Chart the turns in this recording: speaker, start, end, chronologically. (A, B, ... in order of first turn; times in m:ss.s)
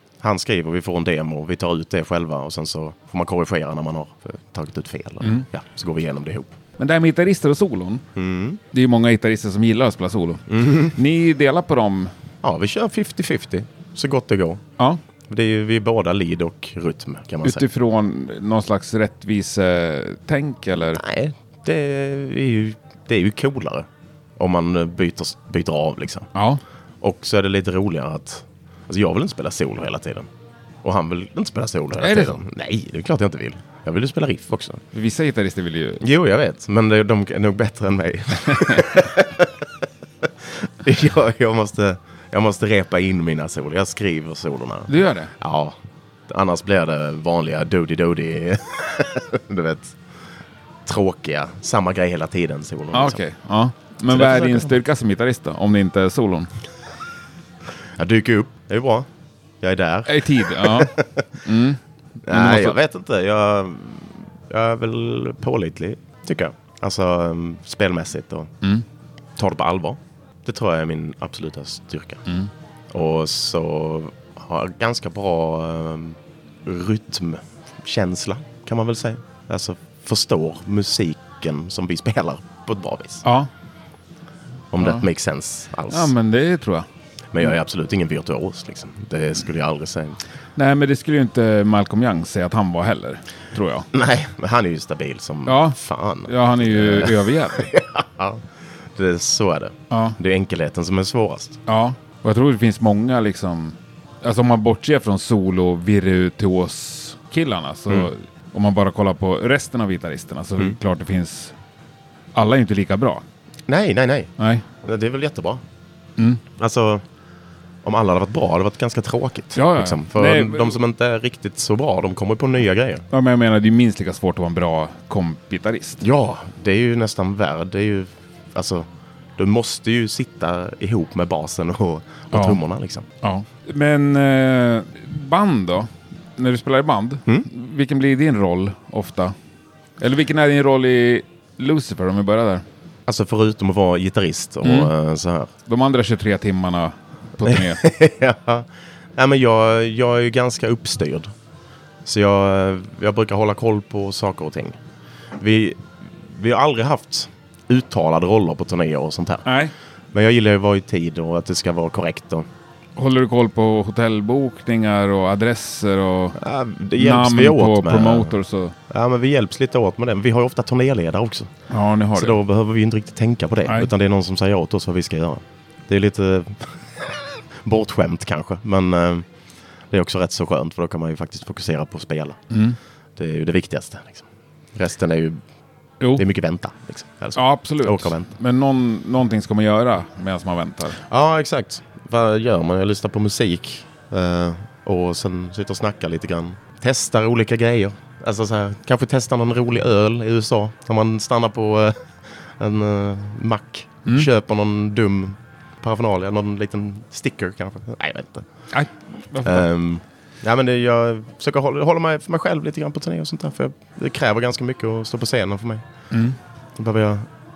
0:00.2-0:06.5 A
0:06.8-0:08.0 B
0:08.2-0:08.6 A
0:08.7-0:12.1 B
0:10.5-0:11.0 A
0:12.4-0:14.6 A
0:15.3-0:17.7 A
0:17.4-0:21.0 B
0:21.0-0:23.9 A
0:24.4-0:26.3 A
0:26.4-0:26.6 B
0:27.0-0:30.3 A
0:30.8-0:34.8 A
0:32.0-0:32.4 B
0:34.9-0:36.0 B
0:36.0-0:39.5 A
0:40.6-0:45.8 A
0:44.9-0:45.3 B
0:46.3-0:50.0 A
0:50.9-0:53.2 A
0:52.9-0:56.5 B
0:54.1-0:54.8 A
0:58.0-0:59.1 A
0:59.6-1:01.3 A
1:00.1-1:02.8 B
1:02.3-1:08.5 A
1:09.4-1:12.2 A
1:12.9-1:23.2 A
1:23.2-1:23.5 B
1:24.7-1:26.1 A
1:25.9-1:26.9 B
1:27.3-1:30.2 A
1:30.6-1:33.9 B
1:33.9-1:38.4 A
1:35.5-1:37.7 B
1:39.0-1:41.6 A
1:39.9-1:40.2 B
1:41.7-1:51.6 B
1:52.3-1:53.2 B
1:53.7-1:54.3 A
1:54.4-1:54.6 B
1:54.8-1:55.6 A
1:56.6-1:57.0 A
1:57.8-2:03.1 A
1:59.6-2:00.8 B
2:03.1-2:06.0 B
2:06.0-2:13.1 A
2:12.3-2:12.6 B
2:13.2-2:19.4 B
2:20.0-2:22.6 B
2:23.1-2:25.5 A
2:24.6-2:24.9 B
2:25.7-2:27.8 B
2:27.5-2:31.3 A
2:32.0-2:34.8 A
2:35.4-2:39.5 A
2:39.4-2:39.7 B
2:40.1-2:42.5 A
2:43.0-2:46.4 B
2:46.4-2:48.4 A
2:47.0-2:48.8 B
2:48.9-2:51.5 A
2:51.7-2:52.4 B
2:52.1-2:59.3 A
2:59.9-3:02.4 A
3:02.5-3:02.8 B
3:03.2-3:05.4 A
3:06.2-3:08.3 A
3:07.4-3:11.0 B
3:11.1-3:22.0 A
3:22.6-3:28.5 A
3:28.7-3:29.7 B
3:29.4-3:35.8 A
3:36.1-3:36.4 B
3:36.8-3:37.3 A